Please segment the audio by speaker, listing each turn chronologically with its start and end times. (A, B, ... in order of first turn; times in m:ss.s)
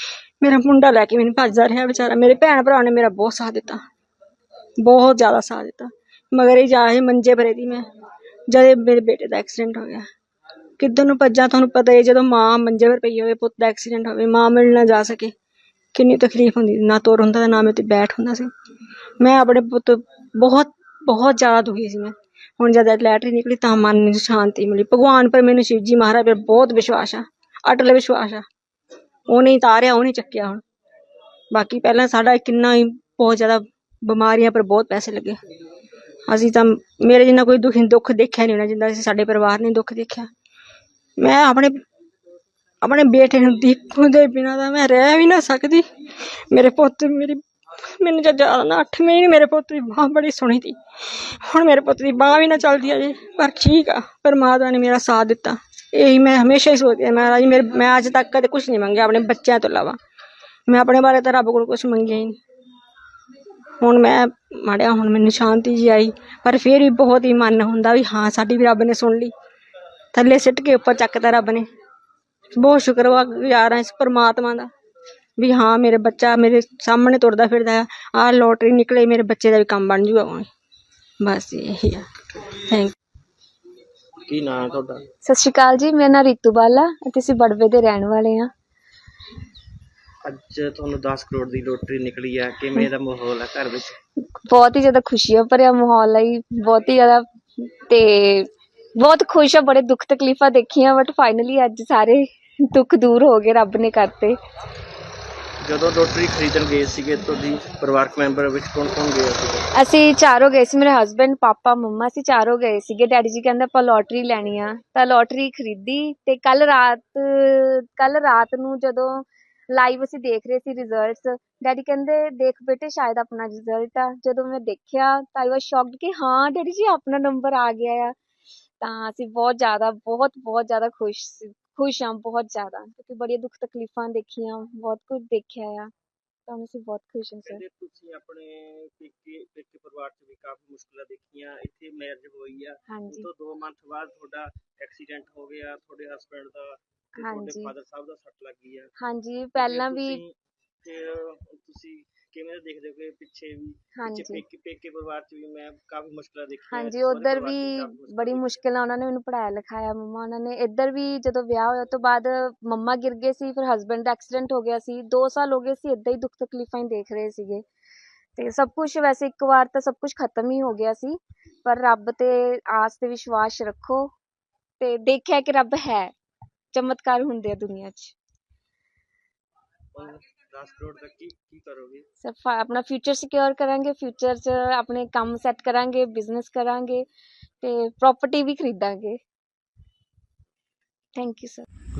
0:00.4-0:03.8 A
0:04.8-0:07.9 A
0:08.5-0:10.1 A
0:10.8-0:15.3 A
0:15.9-0:18.5 A
0:19.2-0:28.4 A
0:29.3-0:30.6 A
0:31.5-0:35.4 A
0:36.3-0:40.3 A
0:41.2-0:41.8 A
0:42.8-1:00.0 A
1:00.7-1:02.4 A
1:03.8-1:09.3 A
1:10.1-1:11.7 A
1:12.5-1:14.7 A
1:15.4-1:20.5 A
1:21.2-1:22.1 A
1:22.6-1:22.9 A
1:24.3-1:25.0 B
1:25.2-1:28.5 C
1:30.2-1:34.0 B
1:34.4-1:44.4 C
1:45.6-1:49.7 B
1:49.7-2:08.1 C
2:08.8-2:15.9 C
2:16.5-2:17.6 C
2:17.4-2:28.9 B
2:22.9-2:23.2 C
2:27.2-2:27.7 C
2:29.0-2:30.2 C
2:29.6-2:38.6 B
2:34.0-2:34.4 C
2:36.7-2:47.6 C
2:48.4-2:54.1 C
2:54.8-2:56.1 C
2:56.7-2:58.1 C
2:59.9-3:02.0 B
3:02.2-3:07.0 C
3:07.6-3:09.2 C
3:11.2-3:11.7 C